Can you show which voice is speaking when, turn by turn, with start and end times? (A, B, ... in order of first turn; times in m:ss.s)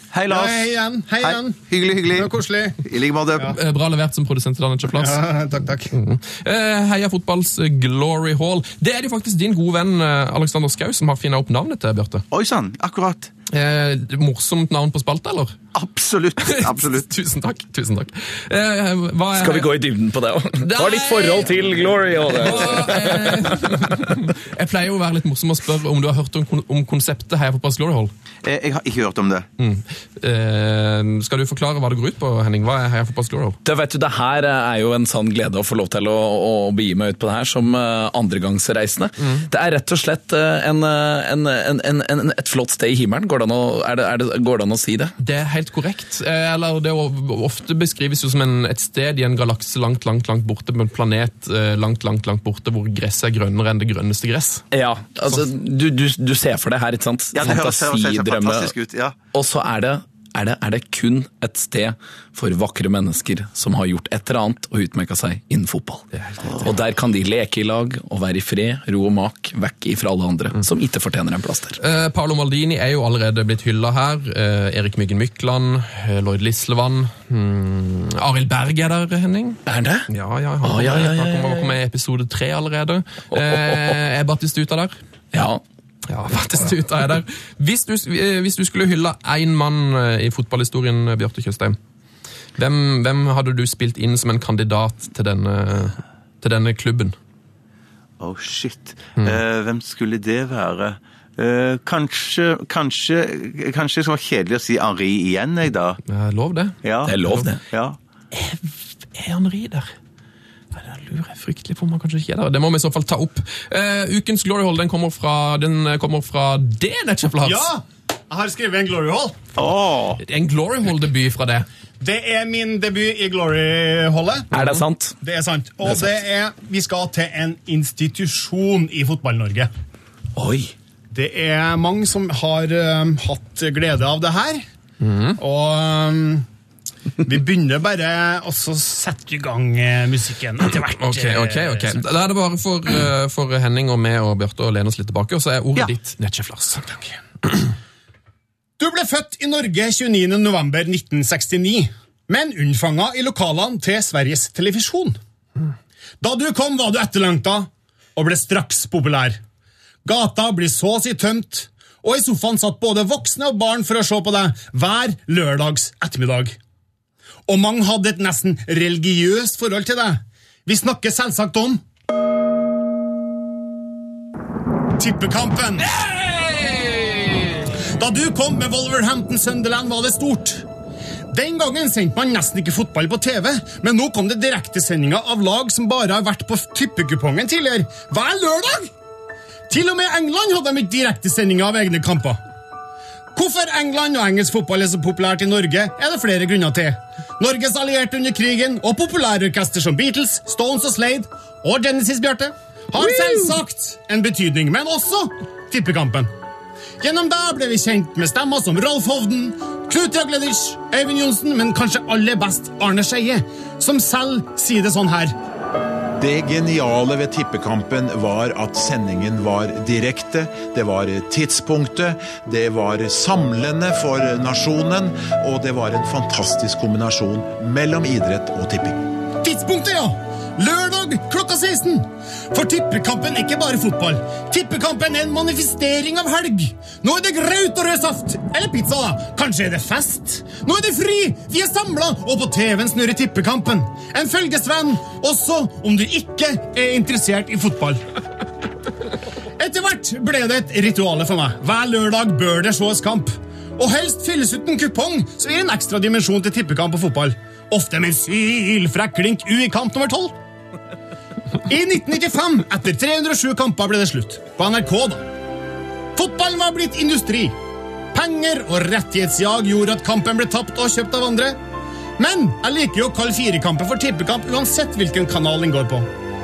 0:00.1-0:00.6 A
0:00.3-0:01.6 B
0:01.2-0:03.6 A
0:02.1-0:02.8 B
0:03.5-0:05.2 C
0:04.9-0:05.9 B
0:05.9-0:12.2 C
0:12.3-0:13.3 A
0:13.5-0:15.6 C
0:15.7-0:17.1 A
0:16.4-0:19.8 C
0:19.4-0:23.7 D
0:20.6-0:21.5 C
0:22.3-0:28.1 C
0:28.4-0:29.5 A
0:29.6-0:33.6 C
0:33.6-0:45.1 D
0:39.2-0:39.4 C
0:45.2-0:54.6 C
0:54.7-0:58.7 D
0:57.3-0:59.2 A
0:59.3-1:11.8 D
1:11.8-1:25.0 C
1:19.7-1:20.1 D
1:20.6-1:21.8 D
1:23.3-1:24.0 D
1:25.3-1:25.6 D
1:26.1-1:31.8 C
1:32.6-1:37.2 C
1:38.2-1:46.0 A
1:46.1-1:46.8 C
1:46.8-1:48.0 A
1:47.1-1:47.6 D
1:48.3-1:49.9 C
1:50.7-1:57.7 C
1:57.4-1:59.5 B
1:59.6-2:00.2 A
2:00.2-2:01.7 C
2:02.0-2:09.7 B
2:04.5-2:05.2 D
2:05.8-2:06.1 D
2:10.4-2:10.7 D
2:11.1-2:14.6 B
2:15.0-2:15.4 C
2:15.4-2:16.5 B
2:17.2-2:22.0 B
2:20.9-2:27.7 C
2:28.8-2:35.2 B
2:36.2-2:39.4 B
2:40.0-2:46.6 B
2:47.5-2:51.8 B
2:55.0-2:56.0 B
2:55.9-2:57.7 C
2:58.0-3:00.6 B
3:01.3-3:08.9 B
3:09.7-3:12.4 B
3:13.4-3:26.3 B
3:27.0-3:35.4 B
3:36.2-3:49.1 E
3:49.4-4:08.0 B
4:09.6-4:20.4 B
4:21.7-4:25.3 B
4:26.2-4:27.6 B
4:28.1-4:31.6 B
4:32.2-4:36.1 B